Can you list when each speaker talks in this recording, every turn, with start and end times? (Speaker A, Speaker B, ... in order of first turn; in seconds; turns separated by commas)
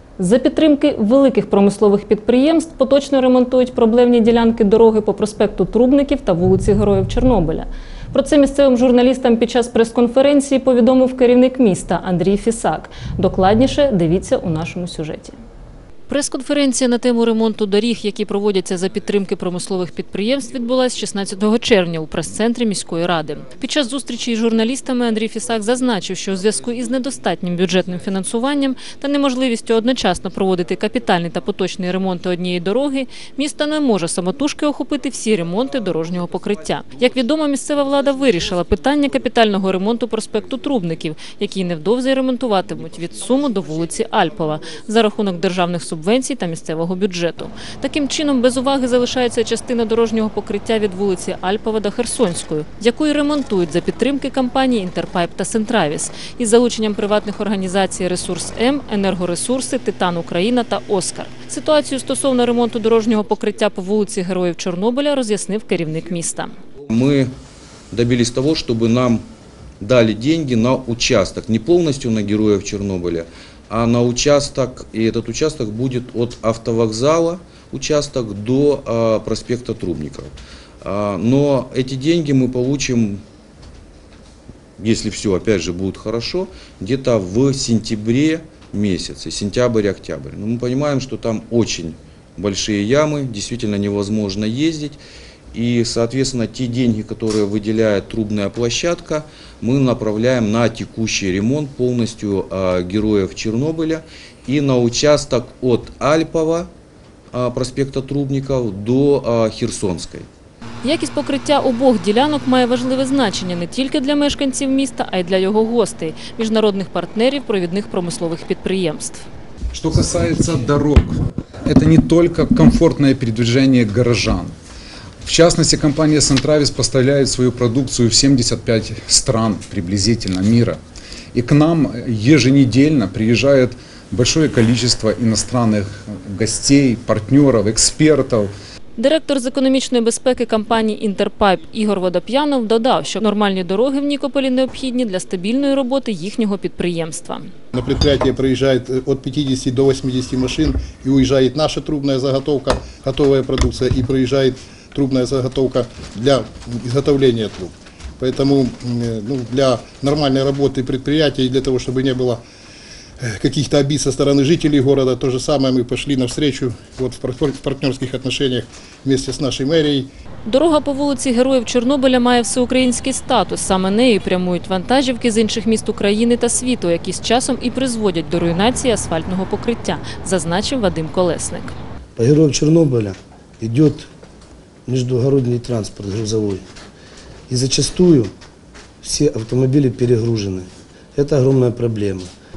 Speaker A: 0.2-15.4, Speaker A: 16.1-66.5, Speaker B: 66.9-67.3, Speaker B: 67.9-69.2, Speaker B: 69.8-83.2, Speaker B: 84.8-95.0, Speaker B: 95.5-106.7, Speaker B: 107.3-110.3, Speaker A: 110.8-119.3, Speaker C: 119.7-121.1, Speaker C: 121.7-124.5, Speaker C: 125.2-130.8, Speaker C: 131.3-138.5, Speaker A: 139.0-147.5, Speaker D: 147.7-162.4, Speaker D: 163.2-170.1, Speaker A: 170.5-181.7, Speaker E: 182.2-184.1, Speaker E: 184.9-186.6, Speaker E: 187.5-188.3, Speaker E: 189.0-192.3